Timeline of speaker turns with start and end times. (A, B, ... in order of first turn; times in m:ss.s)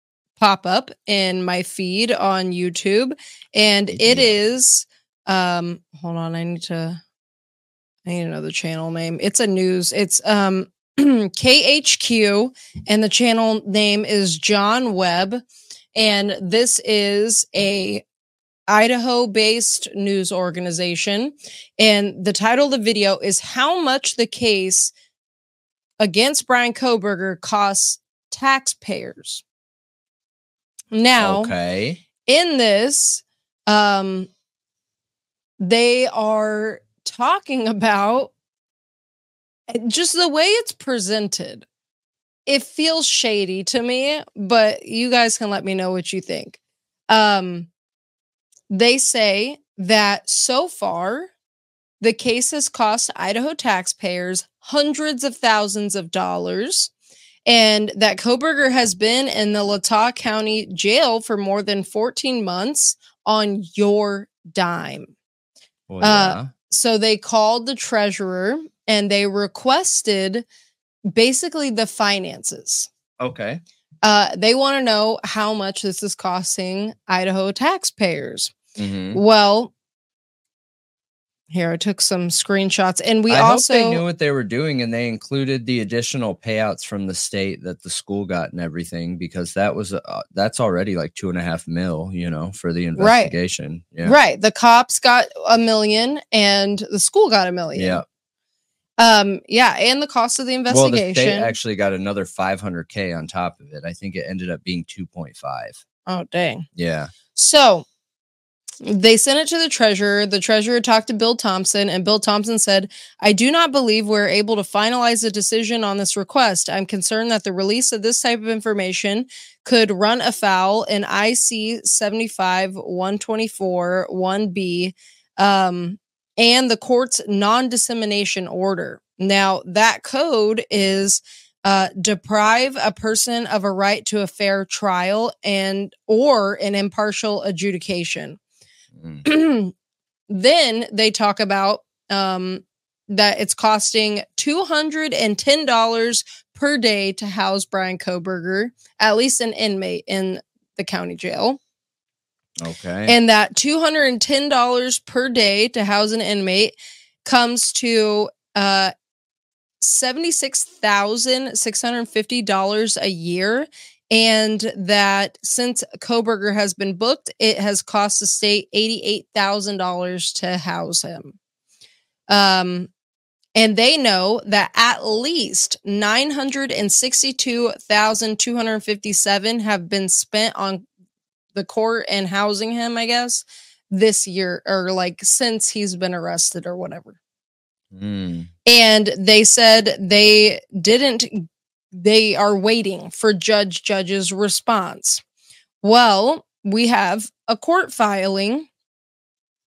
0:00.4-0:07.0 A
0:03.9-0:04.3 B
0:08.1-0:15.4 A
0:16.0-0:18.0 A
0:18.7-0:24.9 A
0:26.0-0:29.4 A
0:30.9-0:31.5 A
0:31.2-0:32.0 B
0:32.3-0:34.3 A
0:35.6-0:38.3 A
0:39.7-0:41.7 A
0:42.5-0:46.6 A
0:47.1-0:47.7 A
0:48.7-0:51.3 A
0:52.0-0:56.9 A
0:57.5-1:05.1 A
1:05.9-1:06.5 B
1:06.0-1:10.4 A
1:11.1-1:12.9 A
1:13.2-1:13.6 B
1:14.0-1:18.5 A
1:18.8-1:19.2 B
1:19.2-1:19.7 A
1:21.5-1:24.0 A
1:23.3-1:34.2 B
1:33.0-1:33.3 A
1:34.0-1:38.0 A
1:37.8-1:38.0 B
1:39.0-1:41.6 A
1:40.7-1:45.8 B
1:46.1-1:46.6 A
1:46.8-1:47.1 B
1:47.3-1:47.8 A
1:48.8-2:18.4 A
2:19.0-2:19.2 B
2:19.2-2:19.7 A
2:20.3-2:31.6 A
2:32.6-2:33.2 B
2:33.1-2:38.9 A
2:39.8-2:51.4 A
2:52.3-2:52.9 A
2:53.6-3:00.8 A
3:01.5-3:07.2 A
3:07.9-3:08.5 B
3:08.7-3:15.2 A
3:15.8-3:18.7 A